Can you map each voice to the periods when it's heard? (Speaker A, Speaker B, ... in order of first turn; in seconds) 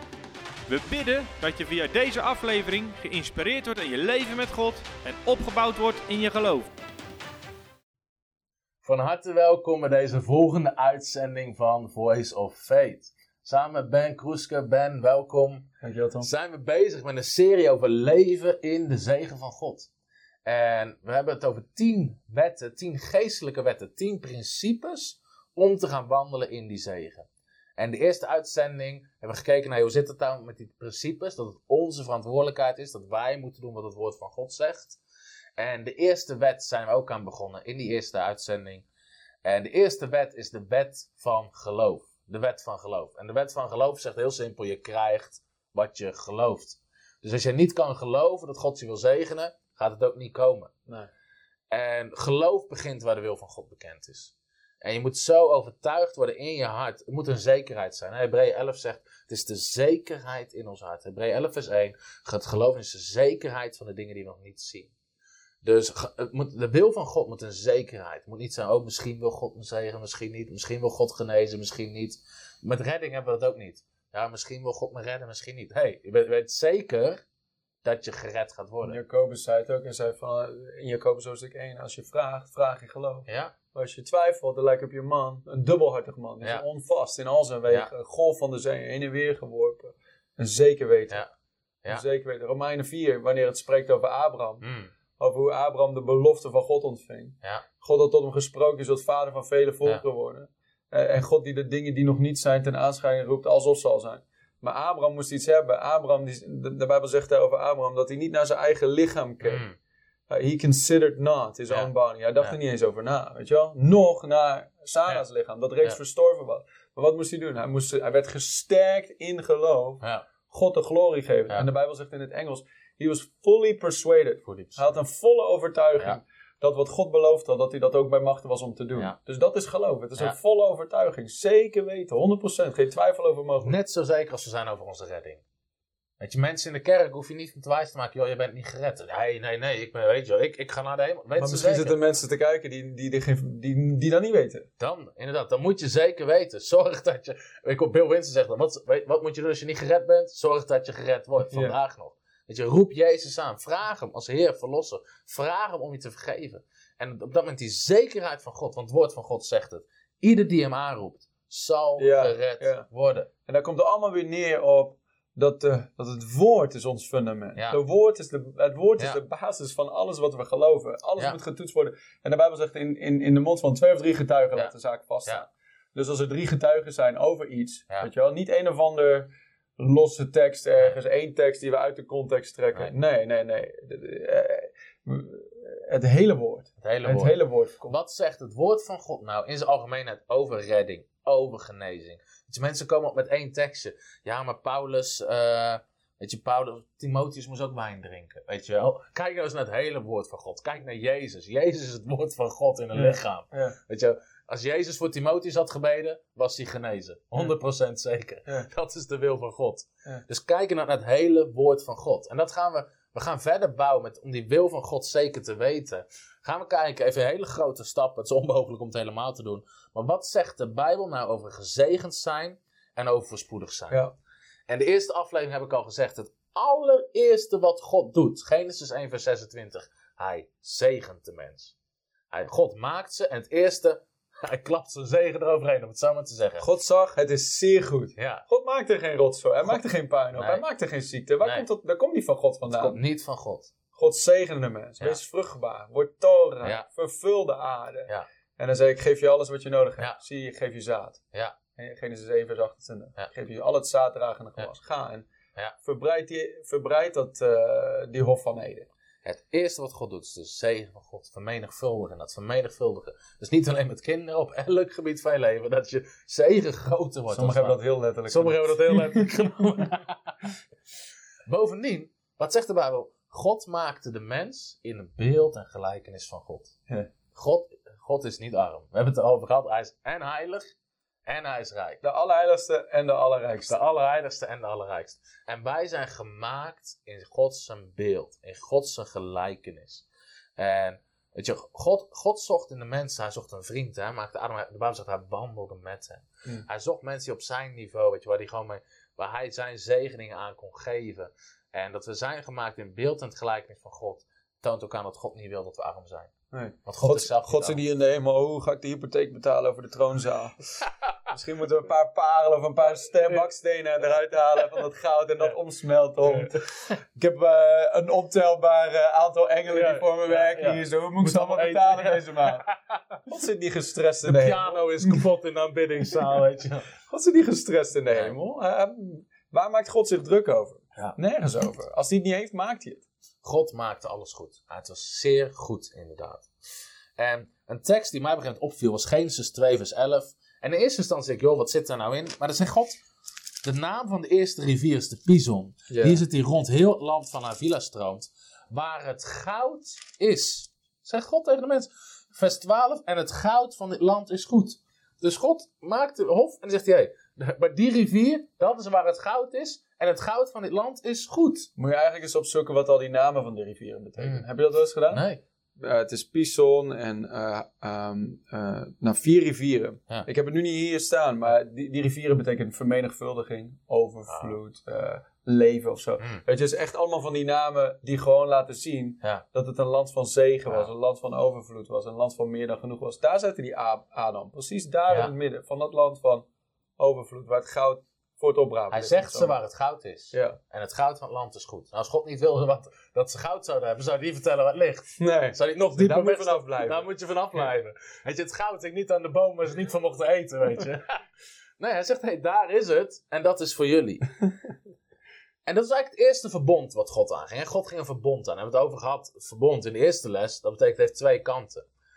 Speaker A: 0.7-6.7
Speaker B: 8.8-15.7, 16.2-19.9, 20.4-35.0, 35.6-38.9, 39.4-50.7, 51.7-64.9, 65.6-77.2, 77.8-79.0, 83.3-83.5, 94.6-94.9, 109.4-109.8, 120.0-120.2, 124.4-124.9, 133.6-135.4, 136.2-142.0, 144.8-163.3, 186.8-224.0, 224.7-231.7, 232.3-236.6, 238.2-238.4, 240.3-240.6, 241.4-241.7, 242.7-243.7, 259.2-270.4, 271.4-276.7, 277.3-280.7, 281.2-282.0, 283.7-290.0, 290.6-306.3, 306.9-307.8, 316.3-316.9, 319.7-323.2, 324.2-326.9, 333.4-336.5, 337.2-343.0, 343.6-361.7, 364.2-364.4, 365.1-365.4, 385.1-385.3, 388.9-401.2, 401.8-404.2, 405.7-411.9
Speaker C: 15.8-16.3, 78.9-91.2, 91.9-94.6, 95.2-109.6, 110.3-133.8, 141.4-144.7, 151.5-151.8, 162.0-162.9, 163.5-187.9, 202.9-203.8, 236.6-243.0, 243.9-251.2, 251.8-255.3, 255.8-258.9, 267.3-269.6, 282.0-283.8, 306.5-310.7, 311.3-322.7, 323.2-325.2, 327.1-333.1, 345.9-346.2, 361.8-365.2, 365.8-386.4, 387.0-389.5, 390.3-390.6, 395.2-397.1